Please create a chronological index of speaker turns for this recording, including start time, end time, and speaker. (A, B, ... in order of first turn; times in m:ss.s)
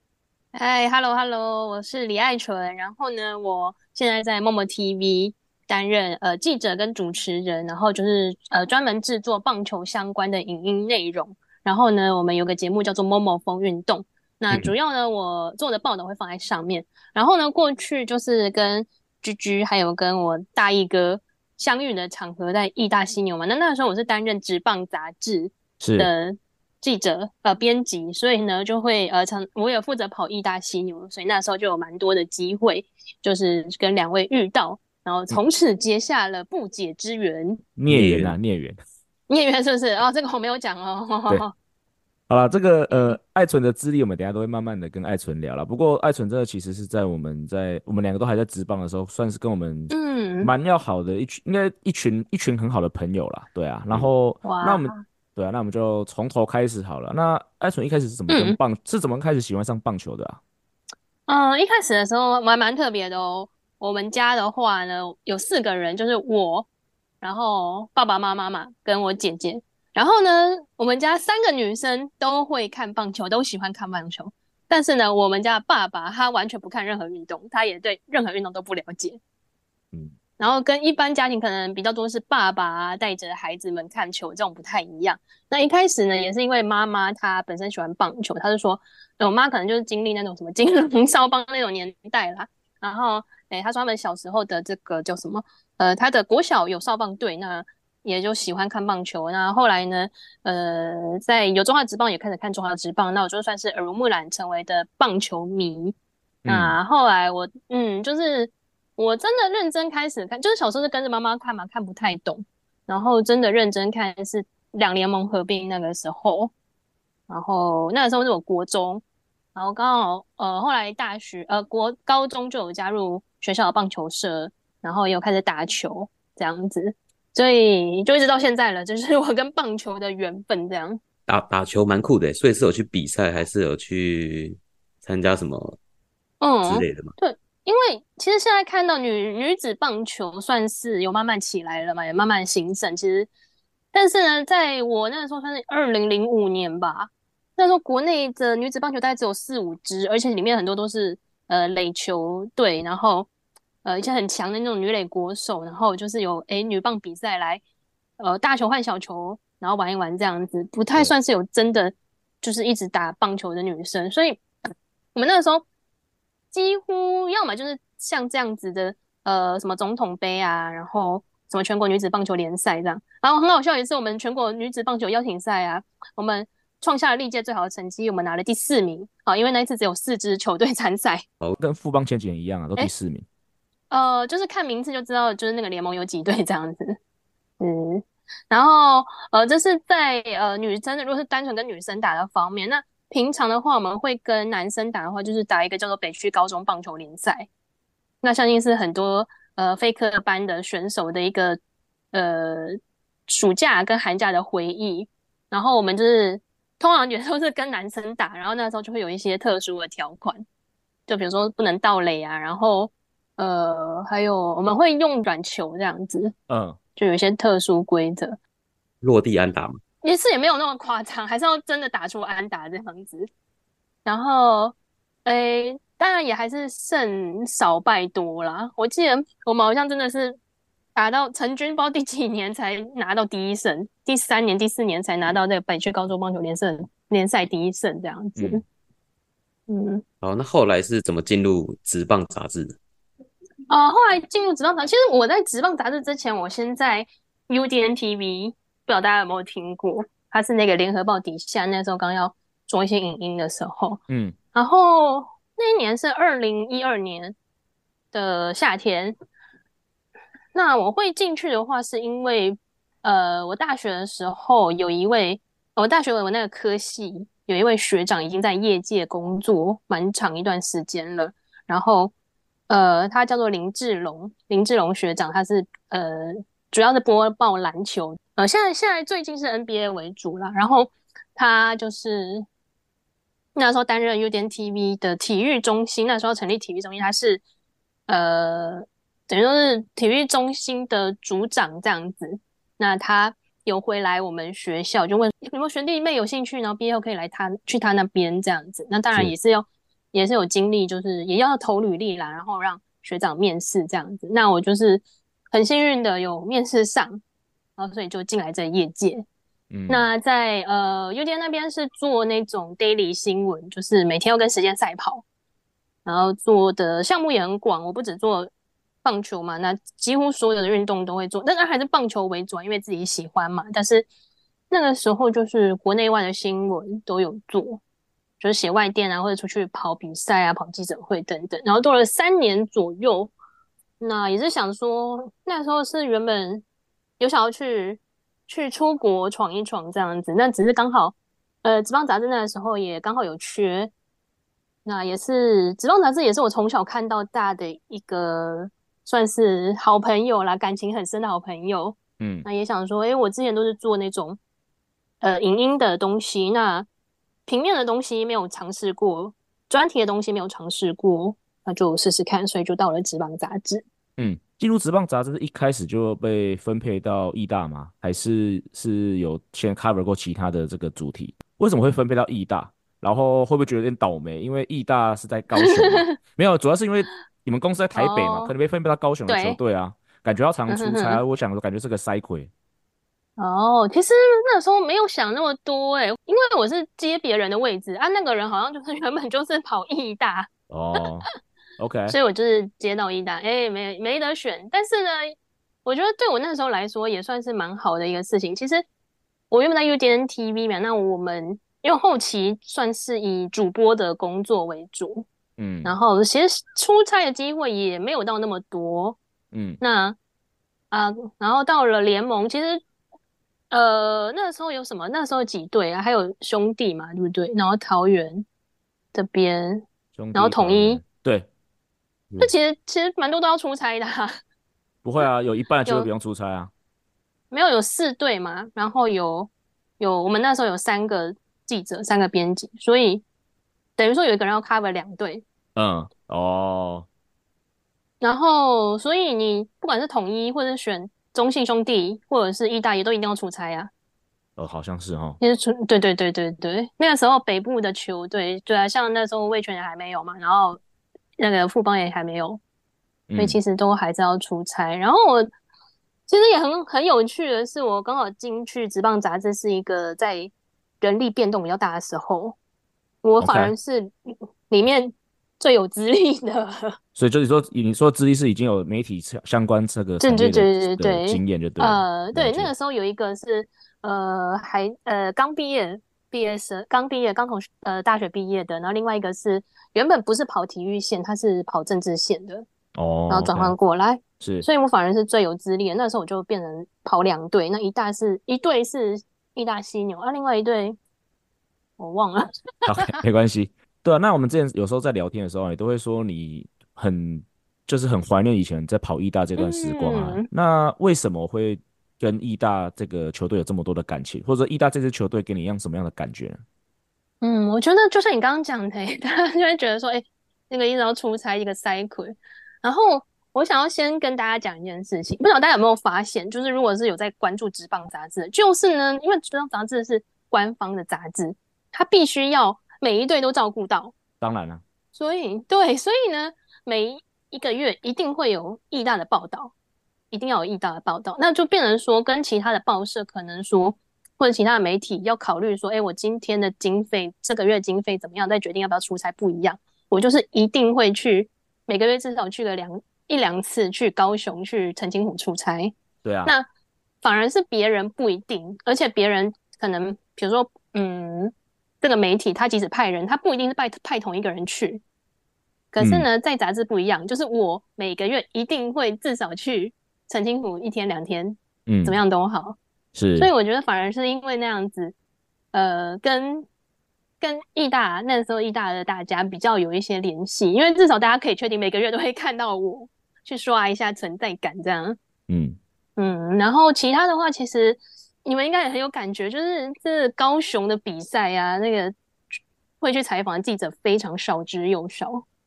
0:00.5-0:37.6 A
0:25.8-0:26.1 B
0:37.8-0:38.8 B
0:37.9-0:38.4 C
0:39.3-0:41.5 A
0:42.3-1:00.4 B
0:49.9-0:50.5 A
0:54.4-0:55.0 A
0:58.3-0:58.6 A
1:01.3-1:06.7 A
1:07.2-1:19.2 A
1:20.4-1:46.0 A
1:46.4-1:46.8 B
1:46.5-1:56.5 A
1:57.3-1:59.0 A
1:59.6-2:11.0 A
2:11.3-2:15.8 C
2:16.4-2:23.3 A
2:16.6-2:17.1 C
2:23.9-2:33.3 A
2:33.8-2:37.6 A
2:38.2-2:44.4 A
2:45.2-2:45.6 A
2:46.5-3:01.2 A
3:01.6-3:03.2 B
3:03.9-3:07.0 A
3:07.6-3:17.5 A
3:18.2-3:21.6 A
3:22.1-3:30.4 A
3:31.1-3:36.3 A
3:36.5-3:36.8 B
3:37.0-3:38.4 A
3:39.0-3:39.8 C
3:40.0-3:43.3 A
3:44.0-3:50.4 A
3:51.0-3:58.6 A
3:58.4-3:58.6 B
3:59.7-4:00.0 A
4:00.2-4:02.8 C
4:03.7-4:14.0 A
4:14.1-4:14.4 B
4:14.5-4:17.4 A
4:18.1-4:19.2 A
4:20.5-4:32.1 A
4:32.7-4:42.4 A
4:43.6-4:47.4 A
4:48.1-5:07.2 A
5:07.8-5:09.3 A
5:09.7-5:10.1 B
5:09.9-5:15.2 A
5:16.0-5:18.5 A
5:19.0-5:24.1 A
5:24.7-5:27.8 A
5:28.4-5:33.3 A
5:34.0-5:36.6 A
5:37.2-5:43.9 A
5:44.8-5:54.4 A
5:52.2-5:52.5 B
5:55.2-5:56.9 A
5:57.5-6:03.8 A
6:04.2-6:22.5 B
6:15.6-6:16.2 A
6:18.0-6:18.5 A
6:19.3-6:19.6 A
6:20.7-6:21.2 A
6:23.4-6:30.5 A
6:30.7-6:31.3 B
6:31.8-6:32.2 B
6:32.1-6:38.8 A
6:39.5-6:45.3 A
6:45.6-6:46.0 B
6:45.8-6:49.2 A
6:49.5-6:49.8 B
6:49.8-6:50.2 A
6:50.9-6:52.8 A
6:53.7-6:58.5 A
6:59.1-6:59.8 A
7:00.2-7:01.5 B
7:00.4-7:01.0 A
7:02.4-7:04.3 A
7:05.0-7:06.7 B
7:07.5-7:13.2 A
7:14.0-7:15.4 A
7:15.8-7:17.1 B
7:18.2-7:23.9 A
7:24.6-7:25.4 B
7:25.4-7:30.8 A
7:31.4-7:32.6 A
7:33.3-7:33.6 B
7:33.4-7:35.5 A
7:36.3-7:42.6 A
7:43.2-7:47.0 A
7:43.4-7:43.7 B
7:47.2-7:52.7 B
7:50.2-8:02.7 A
8:03.0-8:03.7 B
8:03.3-8:11.0 A
8:04.4-8:04.7 B
8:12.0-8:13.2 A
8:12.9-8:26.6 B
8:19.6-8:20.5 A
8:27.4-8:44.1 A
8:44.4-8:44.8 B
8:45.2-8:49.7 A
8:50.3-9:05.9 A
9:06.2-9:06.5 B
9:07.2-9:15.0 A
9:15.9-9:22.8 A
9:16.0-9:16.3 B
9:21.9-9:22.2 B
9:23.2-9:23.5 B
9:23.4-9:25.1 A
9:25.7-9:26.7 A
9:27.4-9:35.2 A
9:35.5-9:35.8 B
9:36.2-9:42.1 A
9:43.0-9:45.4 A